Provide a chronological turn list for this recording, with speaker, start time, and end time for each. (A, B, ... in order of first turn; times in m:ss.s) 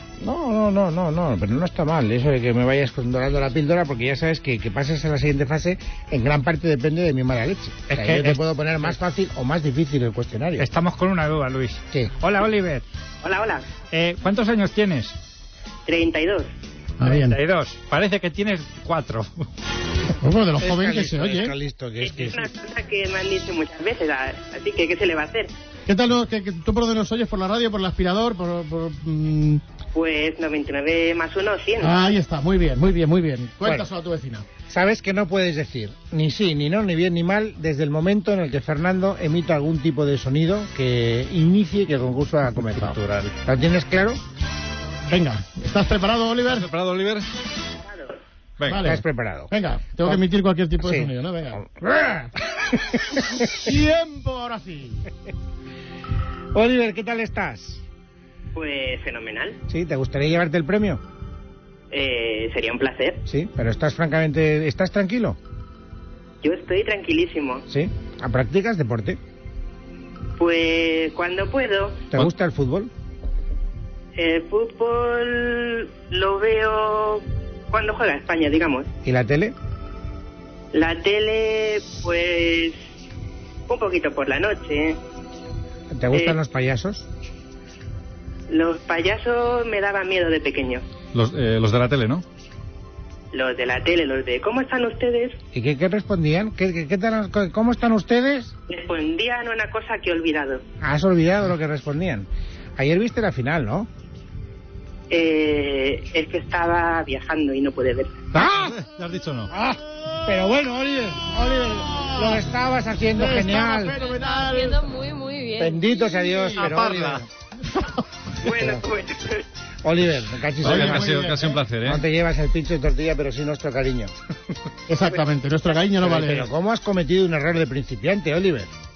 0:00.2-0:10.7 A
0:07.9-0:08.4 B
0:10.6-0:12.8 B
0:13.2-0:13.7 C
0:13.9-0:15.2 B
0:15.8-0:16.5 C
0:17.0-0:17.4 D
0:17.0-0:19.5 B
0:20.2-0:21.5 D
0:20.6-0:22.5 A
0:22.0-0:25.5 C
0:25.9-0:29.6 D
0:29.9-0:31.9 C
0:31.8-0:34.4 D
0:34.7-0:44.2 A
0:42.7-0:43.3 E
0:45.1-0:46.7 D
0:46.4-0:47.3 E
0:47.8-0:48.1 C
0:48.6-0:48.9 E
0:48.7-0:51.6 D
0:48.7-0:49.5 A
0:50.8-0:53.7 A
0:53.5-0:55.0 D
0:56.5-0:57.8 A
0:58.5-0:59.6 C
0:59.7-1:01.0 A
1:01.9-1:03.2 C
1:03.3-1:05.4 A
1:06.4-1:07.6 C
1:07.7-1:09.2 A
1:10.4-1:12.1 C
1:12.1-1:12.9 A
1:14.2-1:18.9 C
1:19.0-1:19.5 A
1:20.7-1:22.8 C
1:23.7-1:25.0 C
1:25.9-1:27.1 A
1:26.1-1:26.4 C
1:28.5-1:30.8 C
1:31.1-1:32.2 E
1:33.3-1:35.4 C
1:35.5-1:38.5 A
1:38.7-1:40.6 C
1:40.8-1:43.9 A
1:45.1-1:48.2 C
1:48.3-1:49.5 E
1:48.3-1:48.8 A
1:49.5-1:53.9 A
1:51.6-1:52.4 D
1:53.1-1:54.8 D
1:53.9-1:56.4 F
1:55.6-1:57.3 A
1:56.4-1:56.8 D
1:56.6-1:57.2 E
1:57.7-1:57.9 D
1:58.4-1:59.4 C
1:58.5-1:58.8 A
1:59.8-2:01.2 A
2:00.6-2:02.0 E
2:00.6-2:01.6 D
2:01.8-2:04.1 A
2:04.9-2:06.5 D
2:05.0-2:05.8 C
2:06.0-2:08.7 A